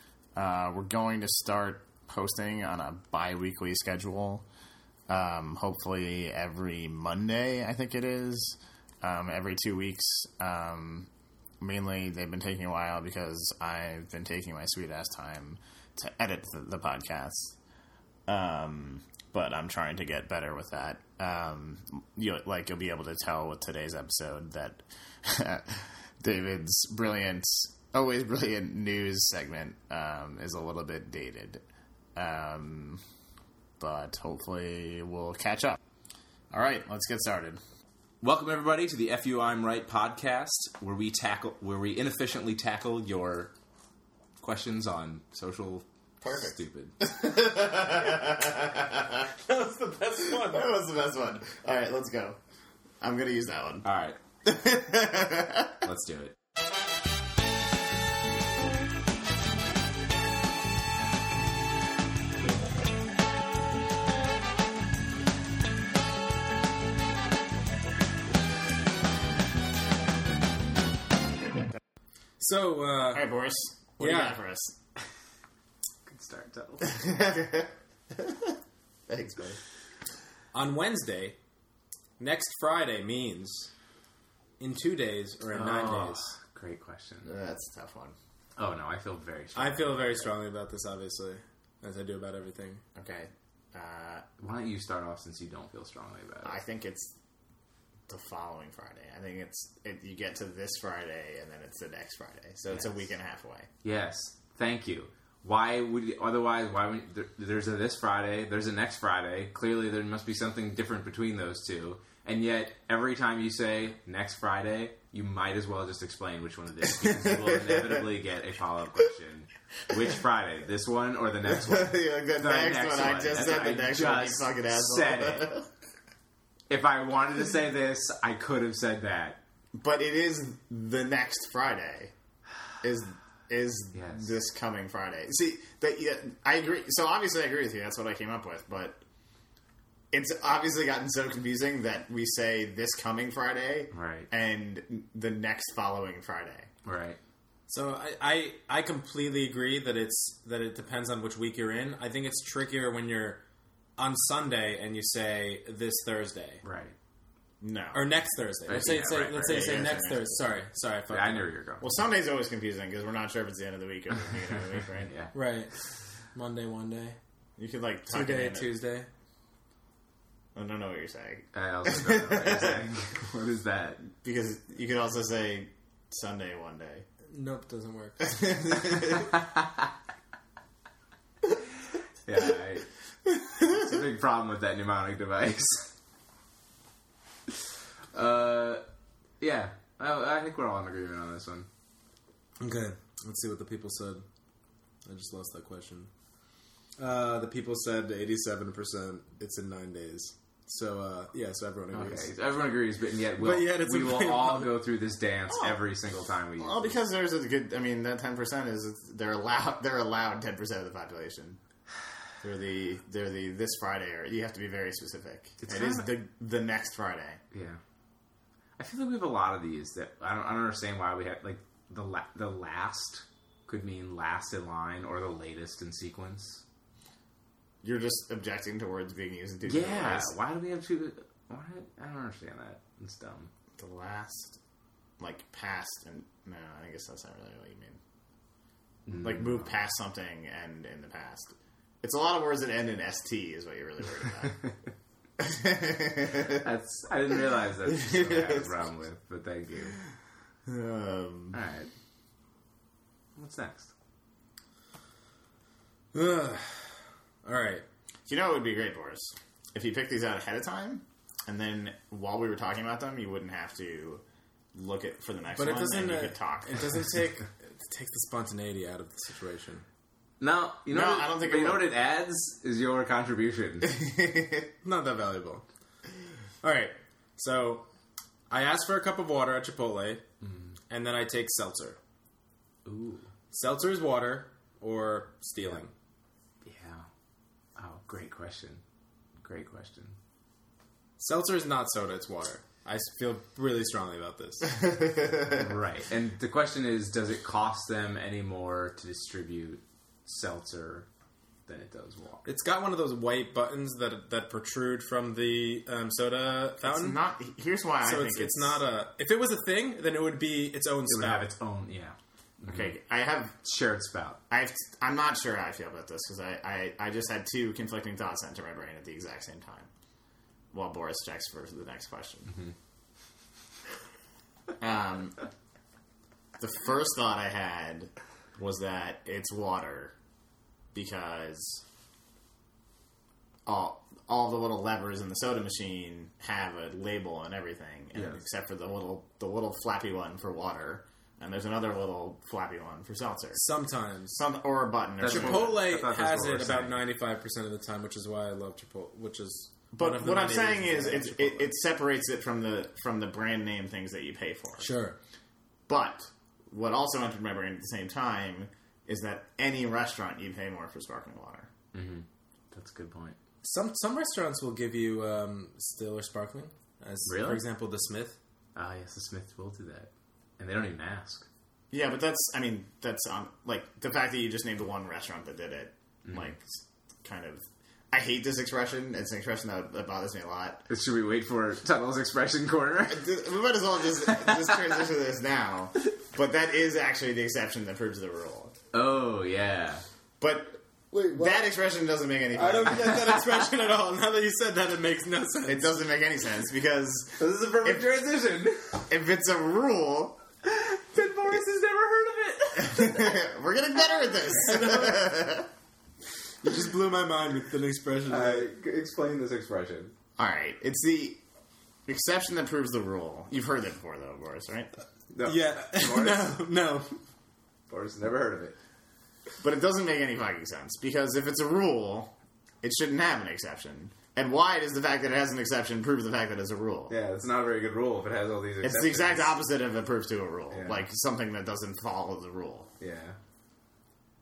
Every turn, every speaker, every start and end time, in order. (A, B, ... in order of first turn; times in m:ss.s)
0:00.4-0:04.4 A
0:05.1-0:11.1 A
0:11.6-0:17.6 A
0:18.3-0:31.6 A
0:32.2-0:33.0 A
0:33.8-0:35.8 A
0:36.5-0:37.6 A
0:38.2-0:43.5 B
0:44.4-0:47.0 B
0:46.2-0:49.2 A
0:49.4-0:50.7 C
0:50.3-0:52.4 A
0:53.0-0:53.8 A
0:53.8-0:54.2 B
0:54.4-0:55.8 A
0:55.8-0:56.4 B
1:12.4-1:13.3 C
1:13.1-1:14.7 A
1:14.0-1:14.4 C
1:16.1-1:16.9 B
1:16.8-1:18.5 A
1:19.1-1:19.6 A
1:20.5-1:21.4 C
1:22.2-1:23.7 C
1:24.6-1:26.3 C
1:25.5-1:27.3 B
1:27.2-1:28.2 A
1:28.6-1:30.3 B
1:29.6-1:32.8 C
1:33.0-1:34.2 A
1:34.4-1:36.6 B
1:36.4-1:37.1 A
1:38.1-1:43.7 A
1:42.7-1:43.0 B
1:43.8-2:05.5 B
1:57.0-1:58.0 A
2:01.5-2:05.7 A
2:06.7-2:09.4 B
2:09.8-2:12.1 A
2:12.8-2:19.0 A
2:13.9-2:14.3 B
2:20.1-2:26.7 A
2:23.9-2:24.3 B
2:26.8-2:27.2 B
2:27.7-2:33.4 C
2:34.0-2:36.6 C
2:36.6-2:37.0 B
2:37.6-2:38.1 A
2:37.9-2:41.5 C
2:38.7-2:39.4 B
2:38.8-2:40.4 A
2:41.1-2:41.9 B
2:41.8-2:45.1 A
2:44.5-2:45.3 B
2:45.3-2:45.7 C
2:46.3-2:47.2 C
2:47.6-2:48.7 A
2:48.1-2:49.1 C
2:50.6-2:52.9 A
2:51.5-2:54.1 B
2:54.2-2:57.0 A
2:57.3-2:58.5 C
2:58.2-2:59.2 A
2:59.0-2:59.9 B
3:02.3-3:02.9 B
3:03.5-3:05.9 B
3:08.1-3:08.8 B
3:09.4-3:11.7 B
3:12.6-3:14.2 C
3:15.1-3:16.1 C
3:17.0-3:22.3 C
3:21.9-3:27.0 B
3:23.4-3:24.8 C
3:25.5-3:25.8 A
3:26.6-3:31.6 A
3:32.4-3:37.4 A
3:35.6-3:36.1 B
3:37.5-3:37.8 B
3:38.8-3:46.6 B
3:47.8-3:50.4 A
3:49.7-3:53.5 B
3:53.8-3:54.6 A
3:55.2-3:58.0 A
3:59.1-3:59.8 B
3:59.2-4:04.7 A
4:05.4-4:06.6 A
4:06.3-4:10.0 B
4:07.8-4:08.8 A
4:10.7-4:11.6 A
4:11.5-4:11.9 B
4:13.4-4:13.9 B
4:16.1-4:17.8 C
4:18.3-4:24.2 A
4:24.7-4:27.0 A
4:25.6-4:29.8 C
4:30.4-4:34.0 B
4:30.9-4:31.9 A
4:33.8-4:34.7 A
4:34.8-4:35.6 C
4:36.6-4:37.8 C
4:38.5-4:40.2 C
4:40.4-4:40.7 B
4:40.9-4:42.0 C
4:42.8-4:43.3 B
4:43.5-4:45.9 C
4:46.6-4:47.1 B
4:47.8-4:48.8 B
4:49.4-4:50.2 B
4:51.2-4:54.9 C
4:54.9-4:55.7 A
4:55.5-5:01.1 B
5:01.7-5:02.5 B
5:02.5-5:07.2 C
5:06.8-5:08.8 A
5:08.0-5:11.5 C
5:11.1-5:12.9 B
5:12.7-5:13.6 A
5:13.6-5:14.4 B
5:14.5-5:19.9 A
5:20.7-5:22.6 A
5:24.8-5:25.4 A
5:26.6-5:30.1 A
5:30.9-5:31.8 A
5:33.7-5:43.6 A
5:43.5-5:44.4 C
5:44.3-5:45.8 A
5:45.2-5:47.0 B
5:45.2-5:51.7 C
5:49.9-5:54.9 A
5:54.8-5:55.2 C
5:55.9-6:01.7 A
6:01.9-6:03.4 B
6:03.6-6:08.4 C
6:07.3-6:07.6 B
6:08.8-6:11.5 B
6:11.9-6:20.9 A
6:16.3-6:16.5 B
6:20.9-6:23.3 B
6:23.1-6:28.8 A
6:24.3-6:24.7 B
6:28.9-6:30.0 B
6:30.4-6:33.3 A
6:31.1-6:31.7 C
6:32.5-6:36.0 C
6:35.7-6:38.1 A
6:37.4-6:39.0 B
6:39.1-6:40.4 A
6:40.6-6:43.4 B
6:42.8-6:45.7 A
6:44.5-6:45.4 C
6:46.6-6:48.7 C
6:48.3-6:50.1 B
6:50.4-6:51.4 A
6:52.1-6:54.9 A
6:55.3-6:56.6 B
6:55.4-6:57.2 C
6:57.9-6:58.8 B
6:59.6-7:07.2 A
7:07.1-7:09.6 B
7:08.8-7:12.9 A
7:10.7-7:11.0 B
7:13.0-7:13.4 B